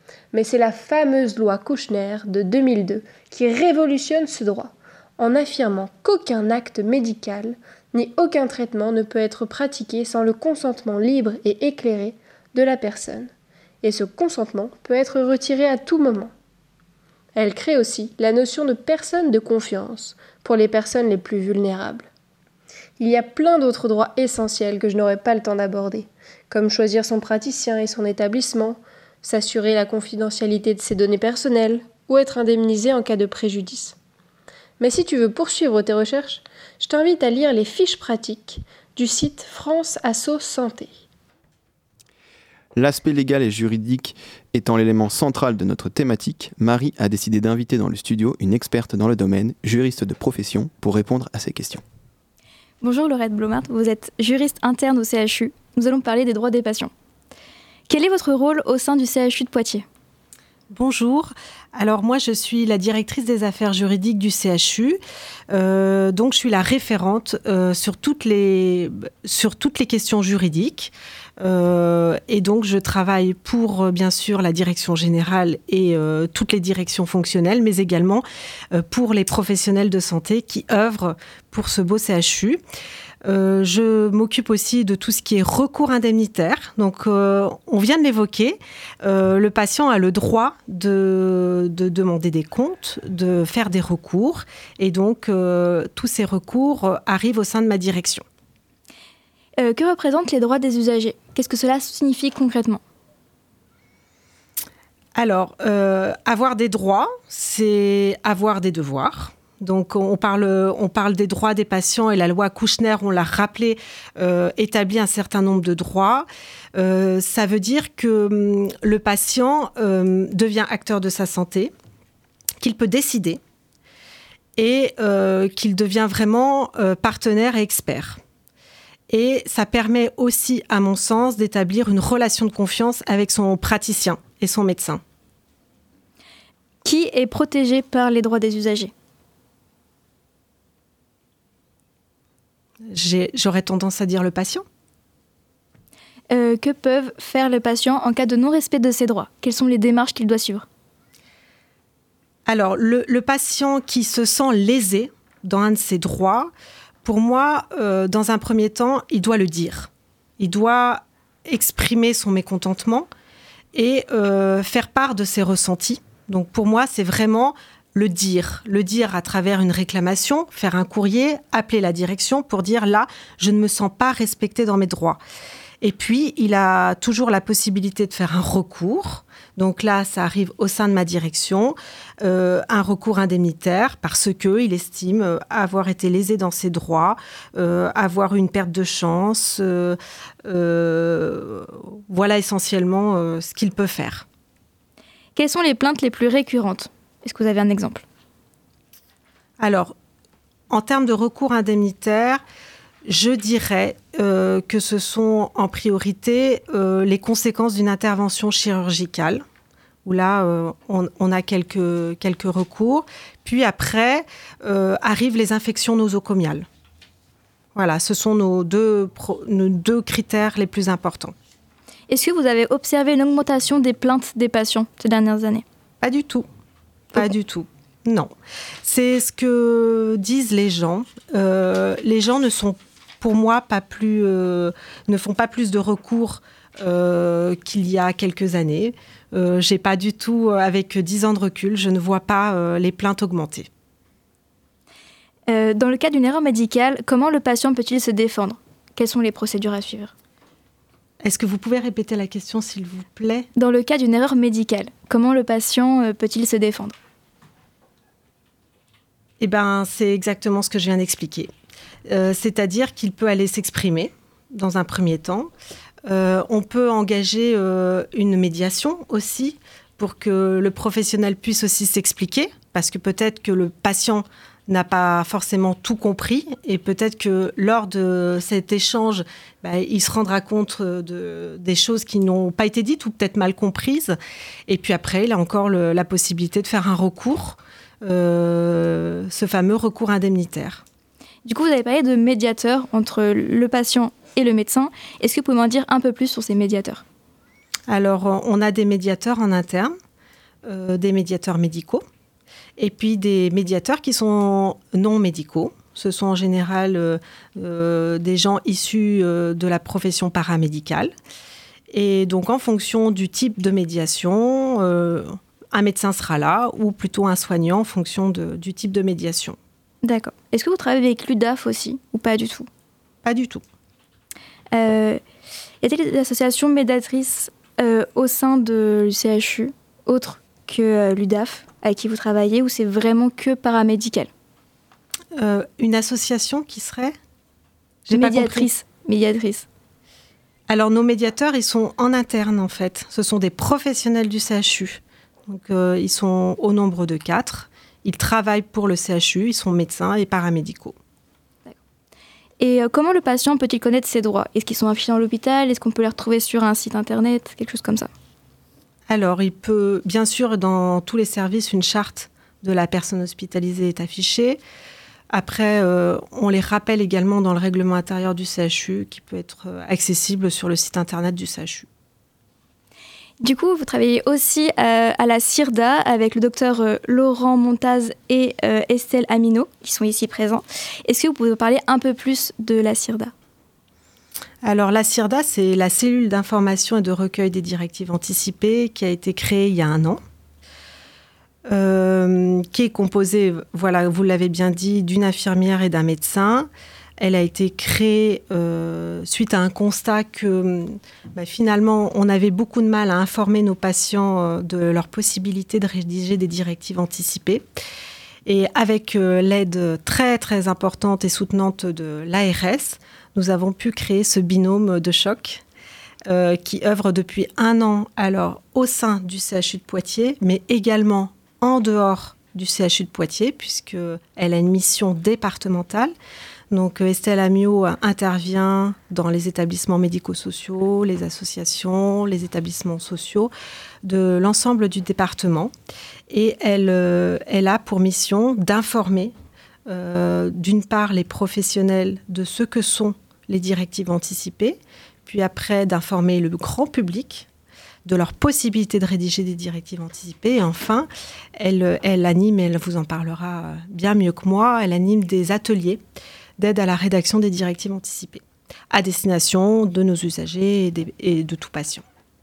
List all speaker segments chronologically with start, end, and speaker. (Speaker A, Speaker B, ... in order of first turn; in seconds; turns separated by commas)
Speaker A: 0.3-13.3, Speaker A: 13.8-16.3, Speaker A: 17.3-22.1, Speaker A: 23.0-34.0, Speaker A: 34.8-40.9, Speaker B: 42.7-51.8, Speaker C: 52.8-56.9, Speaker C: 57.9-59.8, Speaker D: 60.7-65.0, Speaker D: 65.5-82.6, Speaker D: 83.2-98.2, Speaker C: 99.6-102.8, Speaker D: 105.2-121.7, Speaker D: 122.6-123.4, Speaker D: 124.6-128.2, Speaker D: 129.1-135.0, Speaker C: 136.8-138.9, Speaker D: 142.9-144.6, Speaker C: 146.3-150.7, Speaker D: 152.4-156.5, Speaker D: 157.0-163.1, Speaker D: 163.7-175.2, Speaker D: 175.8-194.2, Speaker C: 195.3-198.0, Speaker D: 199.6-199.9, Speaker D: 200.7-202.4, Speaker D: 203.1-209.4, Speaker D: 210.0-216.7, Speaker D: 217.7-221.3, Speaker C: 222.1-225.6, Speaker D: 226.0-226.5, Speaker D: 227.1-228.3, Speaker D: 228.8-243.7, Speaker C: 245.5-250.1, Speaker D: 251.2-253.5, Speaker C: 253.6-256.9, Speaker D: 259.4-261.5, Speaker D: 262.1-265.5, Speaker D: 266.0-284.1, Speaker D: 284.7-290.8, Speaker C: 291.4-297.0, Speaker D: 297.9-299.9, Speaker D: 300.6-302.0, Speaker D: 302.8-311.1, Speaker D: 311.9-319.6, Speaker C: 320.0-322.7, Speaker D: 323.2-323.6, Speaker C: 324.7-325.2, Speaker C: 325.8-334.3, Speaker D: 335.4-337.1, Speaker D: 338.1-338.7, Speaker C: 338.1-339.7, Speaker D: 340.7-350.9, Speaker C: 352.6-358.1, Speaker D: 359.1-364.6, Speaker D: 365.3-371.9, Speaker C: 373.4-383.3, Speaker D: 384.6-390.2, Speaker D: 391.7-396.7, Speaker D: 397.2-407.6, Speaker D: 408.4-415.6, Speaker D: 416.3-426.1, Speaker D: 426.7-433.5, Speaker D: 434.0-435.7, Speaker D: 436.3-439.3, Speaker D: 439.9-447.5, Speaker D: 448.0-456.0, Speaker D: 456.6-462.0